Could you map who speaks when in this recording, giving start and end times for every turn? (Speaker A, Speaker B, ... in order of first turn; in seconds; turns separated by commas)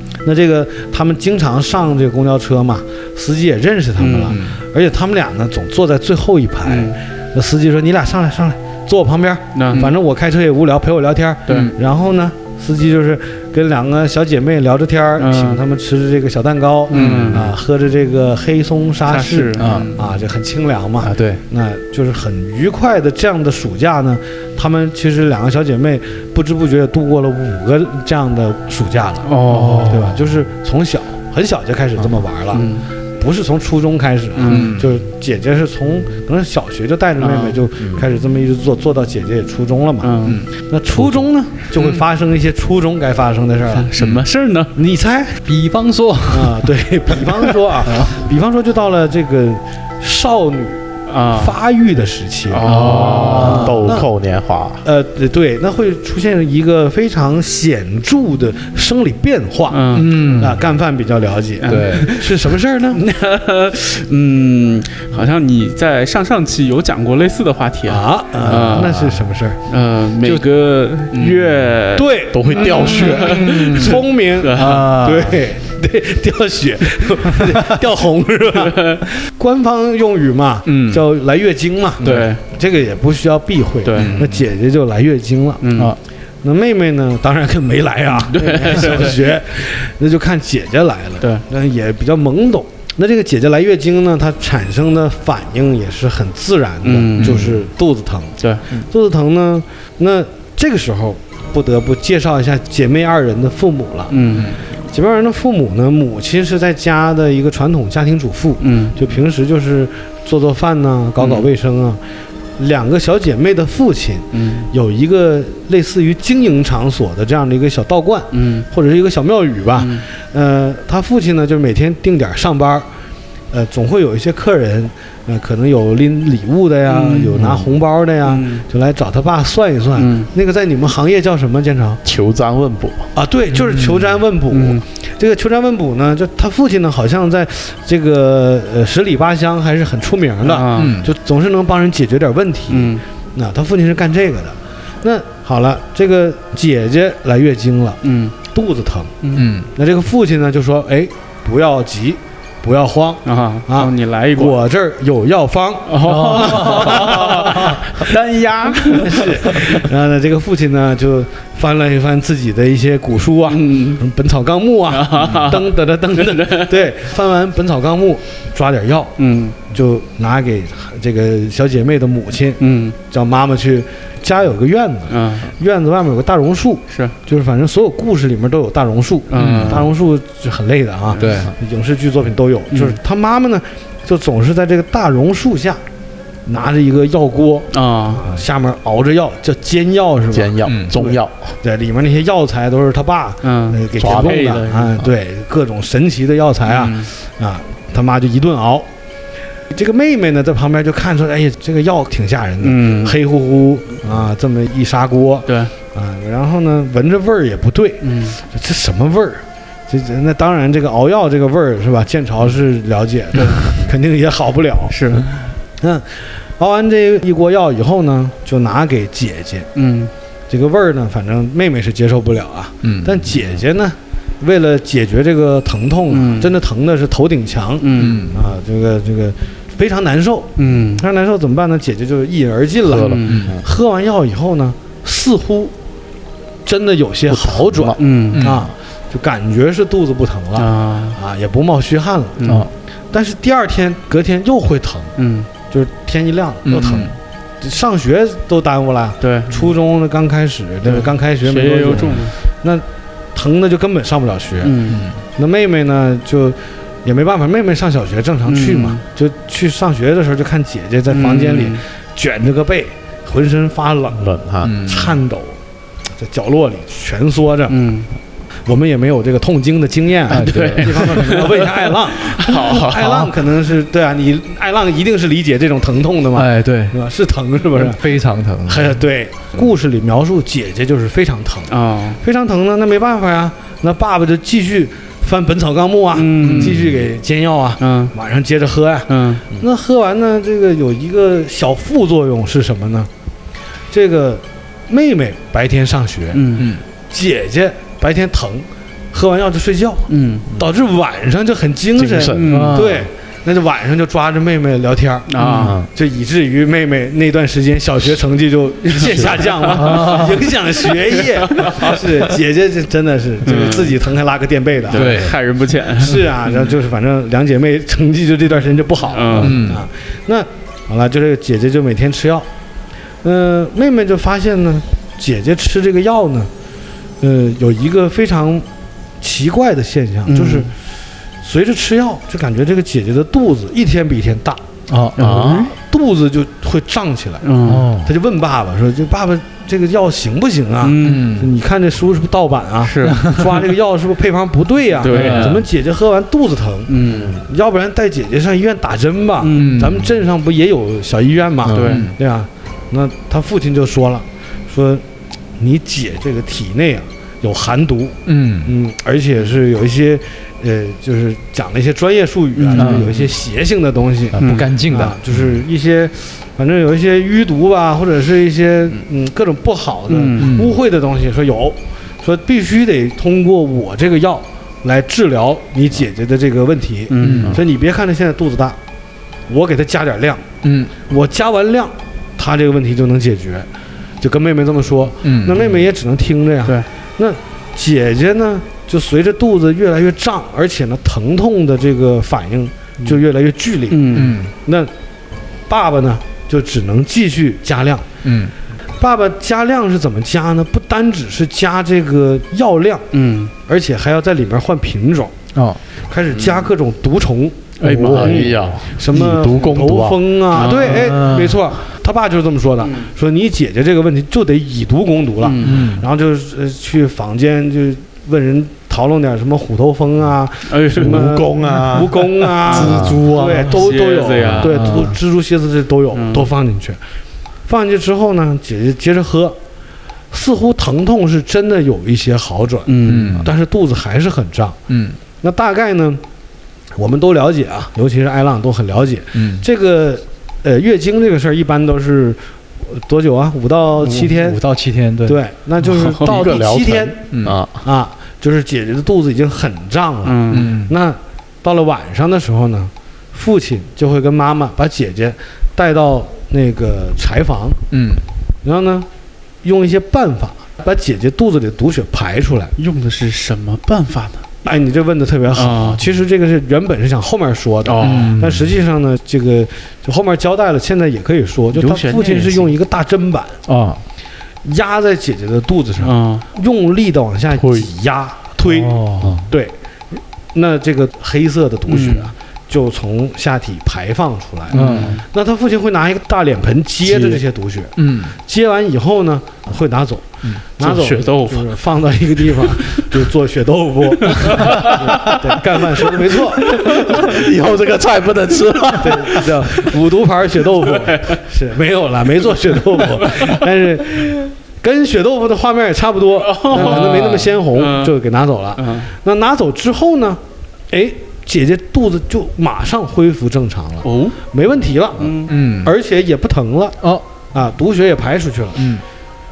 Speaker A: 0.2-43.9, Speaker B: 4.0-4.4, Speaker C: 4.3-4.6, Speaker B: 6.6-7.0, Speaker B: 9.5-9.9, Speaker C: 11.5-11.7, Speaker B: 15.2-15.6, Speaker B: 16.9-17.5, Speaker C: 16.9-17.5, Speaker B: 19.1-20.0, Speaker C: 19.6-20.0, Speaker C: 21.0-21.4, Speaker B: 29.2-30.1, Speaker C: 29.3-30.2, Speaker B: 32.5-32.9, Speaker B: 34.4-34.8, Speaker C: 34.5-34.9, Speaker B: 37.2-37.6, Speaker B: 40.0-40.4, Speaker C: 40.2-41.2, Speaker B: 41.8-42.0, Speaker B: 43.7-44.7, Speaker A: 44.8-45.4, Speaker C: 45.4-48.1, Speaker A: 46.3-54.1, Speaker B: 51.1-51.5, Speaker B: 52.5-53.8, Speaker C: 52.6-54.0, Speaker D: 52.8-54.8, Speaker A: 54.8-63.0, Speaker B: 59.7-60.3, Speaker C: 59.9-60.6, Speaker B: 61.6-62.4, Speaker C: 61.6-62.0, Speaker B: 62.9-69.1, Speaker A: 67.9-69.6, Speaker B: 69.7-74.9, Speaker A: 71.9-85.6, Speaker D: 72.3-73.5, Speaker C: 72.8-74.0, Speaker C: 74.5-75.4, Speaker B: 78.5-79.0, Speaker C: 80.6-81.0, Speaker C: 82.0-82.3, Speaker B: 82.0-82.4, Speaker B: 83.8-84.2, Speaker B: 85.6-86.0, Speaker A: 86.4-104.2, Speaker B: 88.3-89.3, Speaker B: 96.8-97.6, Speaker C: 97.2-97.6, Speaker B: 104.1-104.5, Speaker A: 104.8-112.0, Speaker B: 108.6-109.0, Speaker B: 111.2-111.5, Speaker A: 112.6-122.9, Speaker B: 114.3-114.7, Speaker B: 118.3-118.7, Speaker B: 119.8-120.0, Speaker A: 123.5-132.0, Speaker B: 126.9-127.4, Speaker B: 128.2-128.6, Speaker B: 129.9-130.3, Speaker D: 132.0-133.1, Speaker A: 133.1-149.1, Speaker C: 133.7-134.0, Speaker B: 134.5-134.8, Speaker B: 140.4-141.0, Speaker C: 140.7-141.1, Speaker B: 142.7-143.0, Speaker B: 148.0-148.3, Speaker B: 149.2-149.5, Speaker C: 149.3-149.7, Speaker A: 149.7-158.1, Speaker B: 153.2-154.6, Speaker B: 155.9-159.8, Speaker C: 156.0-157.8, Speaker A: 158.9-169.2, Speaker B: 163.5-164.0, Speaker B: 164.9-166.7, Speaker C: 165.2-165.6, Speaker B: 169.2-169.6, Speaker A: 169.7-185.8, Speaker B: 172.6-172.9, Speaker B: 175.1-175.5, Speaker B: 176.9-177.1, Speaker B: 179.3-179.9, Speaker C: 179.3-179.9, Speaker B: 181.1-181.4, Speaker C: 181.1-181.5, Speaker B: 182.7-183.0, Speaker A: 186.4-198.9, Speaker B: 187.7-188.2, Speaker D: 190.3-191.5, Speaker C: 190.6-190.9, Speaker B: 193.4-194.9, Speaker D: 194.0-194.5, Speaker B: 196.6-197.1, Speaker A: 199.7-215.0, Speaker B: 202.6-203.2, Speaker B: 205.5-205.7, Speaker B: 208.0-208.4, Speaker B: 213.3-213.8, Speaker B: 214.9-215.2, Speaker A: 215.8-219.7, Speaker B: 219.7-220.1, Speaker A: 220.5-235.7, Speaker C: 222.8-223.2, Speaker B: 226.1-226.5, Speaker B: 227.8-228.2, Speaker C: 227.9-228.4, Speaker B: 230.6-231.0, Speaker D: 232.9-233.6, Speaker B: 232.9-233.5, Speaker C: 233.3-233.6, Speaker A: 236.6-242.4, Speaker D: 237.3-238.0, Speaker B: 238.0-238.4, Speaker C: 238.3-238.7, Speaker B: 240.6-241.2, Speaker B: 242.4-242.7, Speaker C: 242.4-242.7, Speaker A: 243.1-245.1, Speaker B: 245.2-245.5, Speaker A: 245.7-254.8, Speaker C: 246.6-247.2, Speaker B: 249.2-249.7, Speaker B: 250.8-252.3, Speaker B: 254.6-255.1, Speaker C: 254.9-255.2, Speaker A: 255.4-265.6, Speaker B: 258.4-259.0, Speaker B: 261.1-261.8, Speaker D: 264.2-264.8, Speaker C: 264.6-265.2, Speaker A: 266.1-267.7, Speaker B: 267.7-268.1, Speaker A: 268.6-278.0, Speaker C: 270.3-271.4, Speaker B: 270.3-273.0, Speaker C: 272.7-273.3, Speaker C: 276.3-277.0, Speaker C: 277.7-278.9, Speaker A: 278.6-293.1, Speaker B: 281.7-282.2, Speaker B: 286.1-286.8, Speaker C: 286.4-286.8, Speaker B: 287.8-288.1, Speaker B: 289.1-289.4, Speaker A: 293.9-296.5, Speaker B: 296.3-296.7, Speaker C: 296.6-296.8, Speaker A: 297.1-315.4, Speaker B: 300.1-300.4, Speaker D: 301.9-302.6, Speaker B: 302.2-302.8, Speaker C: 302.4-303.1, Speaker B: 305.3-305.8, Speaker C: 305.4-305.8, Speaker D: 305.6-305.9, Speaker B: 308.9-310.2, Speaker D: 309.1-309.3, Speaker C: 309.7-310.4, Speaker B: 310.8-312.0, Speaker B: 313.4-314.0, Speaker B: 314.9-316.7, Speaker C: 314.9-315.3, Speaker A: 316.0-322.5, Speaker B: 319.1-319.7, Speaker C: 319.4-319.9, Speaker A: 323.2-326.5, Speaker A: 327.2-328.7, Speaker A: 329.2-330.7, Speaker B: 330.3-330.7, Speaker A: 331.4-334.6, Speaker C: 334.9-335.6, Speaker B: 335.1-335.7, Speaker D: 335.2-335.7, Speaker A: 335.6-337.4, Speaker B: 337.4-337.9, Speaker C: 337.6-338.1, Speaker A: 338.0-346.9, Speaker B: 340.8-341.3, Speaker C: 341.0-341.5, Speaker B: 342.8-343.4, Speaker C: 343.0-343.5, Speaker B: 345.0-345.6, Speaker C: 345.1-345.6, Speaker B: 346.9-347.4, Speaker D: 347.0-347.4, Speaker A: 347.4-355.0, Speaker B: 349.4-349.9, Speaker C: 349.6-350.1, Speaker B: 351.7-352.1, Speaker C: 351.8-352.1, Speaker A: 355.6-378.8, Speaker C: 358.2-358.7, Speaker B: 362.5-363.2, Speaker C: 362.7-363.1, Speaker C: 364.3-365.2, Speaker B: 364.4-364.7, Speaker B: 370.1-370.6, Speaker C: 370.4-370.7, Speaker B: 377.1-377.6, Speaker C: 377.2-377.6, Speaker A: 379.5-380.4, Speaker C: 380.6-380.9, Speaker A: 381.1-383.7, Speaker A: 384.2-394.9, Speaker C: 385.2-385.6, Speaker B: 393.9-394.4, Speaker C: 394.1-394.5, Speaker A: 395.7-398.1, Speaker C: 398.2-398.5, Speaker A: 399.0-403.1, Speaker B: 403.1-403.5, Speaker A: 403.6-405.4, Speaker C: 405.5-405.8, Speaker A: 406.1-427.0, Speaker D: 406.3-406.6, Speaker B: 407.8-408.6, Speaker D: 407.9-410.4, Speaker B: 410.5-411.2, Speaker C: 410.6-411.6, Speaker B: 412.8-413.1, Speaker B: 415.4-415.9, Speaker C: 415.6-416.0, Speaker B: 420.7-421.4, Speaker D: 420.9-423.8, Speaker C: 422.6-423.8, Speaker B: 422.7-425.1, Speaker C: 424.4-425.1, Speaker B: 426.1-426.5, Speaker A: 427.7-429.6, Speaker A: 430.3-434.8, Speaker B: 432.9-433.4, Speaker C: 433.0-433.5, Speaker C: 434.9-435.2, Speaker A: 435.4-436.2, Speaker A: 437.0-444.6, Speaker C: 439.3-439.6, Speaker C: 444.0-445.4, Speaker A: 445.2-447.3, Speaker B: 445.9-446.3, Speaker D: 446.1-447.8, Speaker C: 447.3-447.6, Speaker A: 447.8-457.8, Speaker B: 450.2-450.8, Speaker C: 450.5-450.9, Speaker C: 457.9-458.2, Speaker A: 458.6-459.1, Speaker A: 459.6-462.7, Speaker B: 462.8-464.4, Speaker A: 464.6-473.6, Speaker B: 465.5-466.0, Speaker B: 467.8-468.4, Speaker C: 468.0-468.7, Speaker B: 471.7-472.7, Speaker C: 473.6-474.0, Speaker A: 474.6-496.7, Speaker B: 476.0-476.4, Speaker D: 477.6-477.9, Speaker C: 478.6-479.4, Speaker B: 481.9-482.3, Speaker C: 484.7-485.2, Speaker B: 484.7-485.2, Speaker D: 487.0-487.4, Speaker C: 488.0-488.3, Speaker B: 490.8-491.7, Speaker B: 492.4-492.9, Speaker B: 494.3-495.3, Speaker D: 496.7-499.5, Speaker A: 499.0-517.0, Speaker B: 500.8-501.4, Speaker B: 503.2-503.6, Speaker B: 506.4-508.1, Speaker C: 506.8-507.1, Speaker B: 508.8-509.1, Speaker B: 514.0-514.4, Speaker B: 515.2-515.5, Speaker C: 515.5-515.9, Speaker A: 517.5-518.9, Speaker C: 518.8-519.0